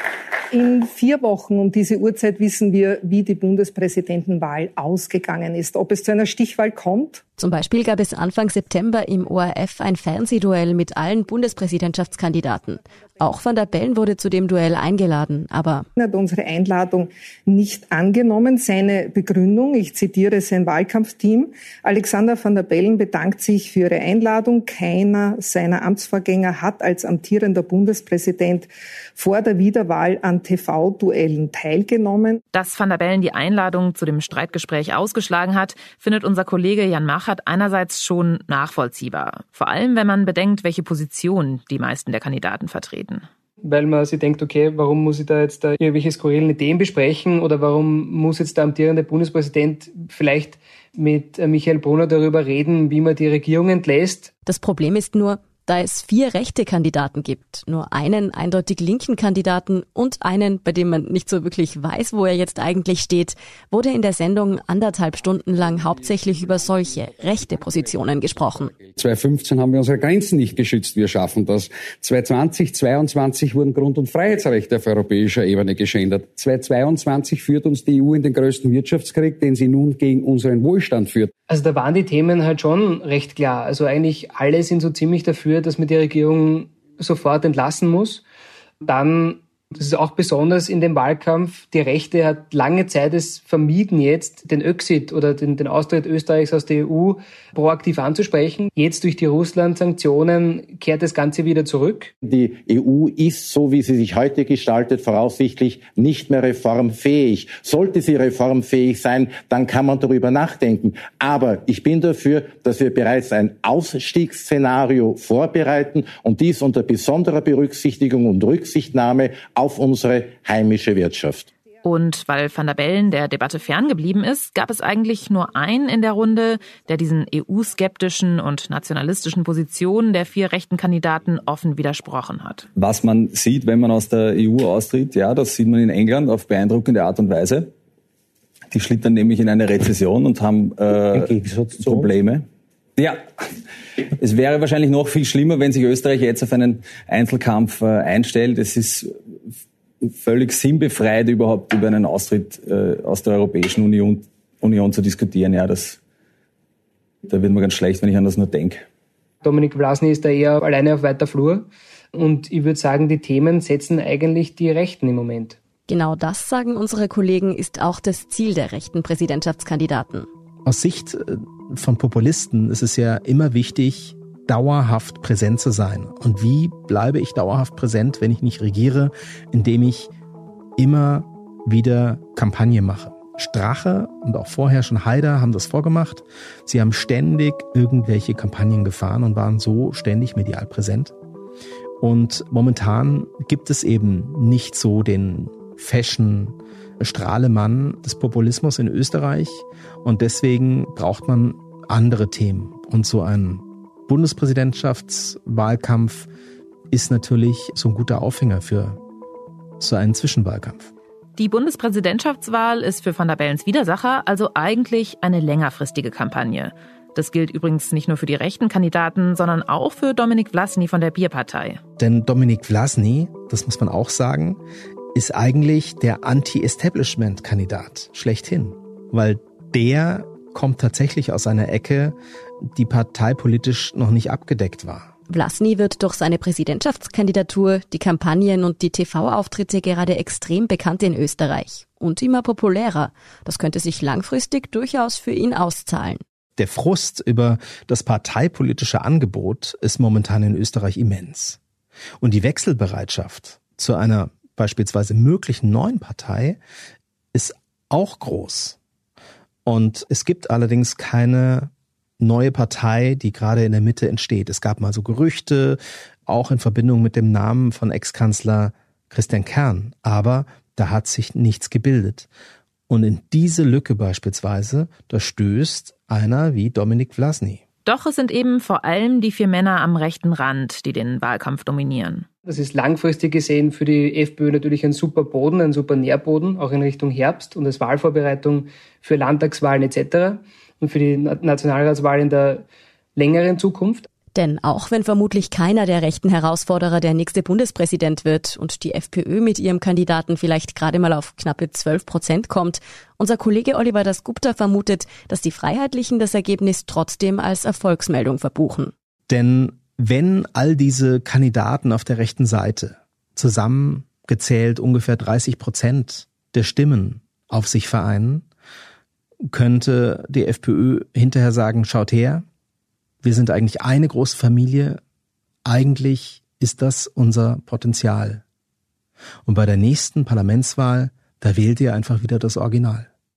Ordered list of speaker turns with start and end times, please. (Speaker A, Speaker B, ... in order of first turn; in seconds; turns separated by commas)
Speaker A: 0.5-7.2, Speaker B: 7.4-15.9, Speaker A: 16.0-32.4, Speaker C: 32.5-43.2, Speaker D: 43.6-54.3, Speaker B: 54.5-68.8, Speaker E: 68.9-81.3, Speaker D: 81.5-88.2, Speaker D: 88.8-102.1, Speaker F: 102.2-121.5, Speaker C: 121.8-132.7, Speaker G: 132.8-137.7, Speaker G: 138.7-142.4, Speaker G: 143.0-143.2, Speaker G: 144.2-149.1, Speaker G: 150.1-156.0, Speaker G: 157.2-158.8, Speaker D: 159.4-165.6, Speaker B: 165.9-170.3, Speaker H: 170.6-180.1, Speaker H: 180.8-191.1, Speaker H: 192.0-206.3, Speaker H: 206.9-209.0, Speaker H: 209.8-210.9, Speaker C: 211.4-221.8, Speaker H: 222.0-224.6, Speaker H: 225.1-235.1, Speaker B: 235.3-246.2, Speaker H: 246.6-251.6, Speaker H: 252.2-256.6, Speaker H: 257.3-258.8, Speaker H: 259.6-272.3, Speaker H: 272.9-277.6, Speaker C: 277.8-282.2, Speaker D: 282.4-292.6, Speaker D: 293.1-294.1, Speaker B: 294.3-308.9, Speaker H: 309.3-318.4, Speaker H: 319.5-322.4, Speaker H: 323.2-325.0, Speaker H: 325.6-328.4, Speaker H: 329.4-333.1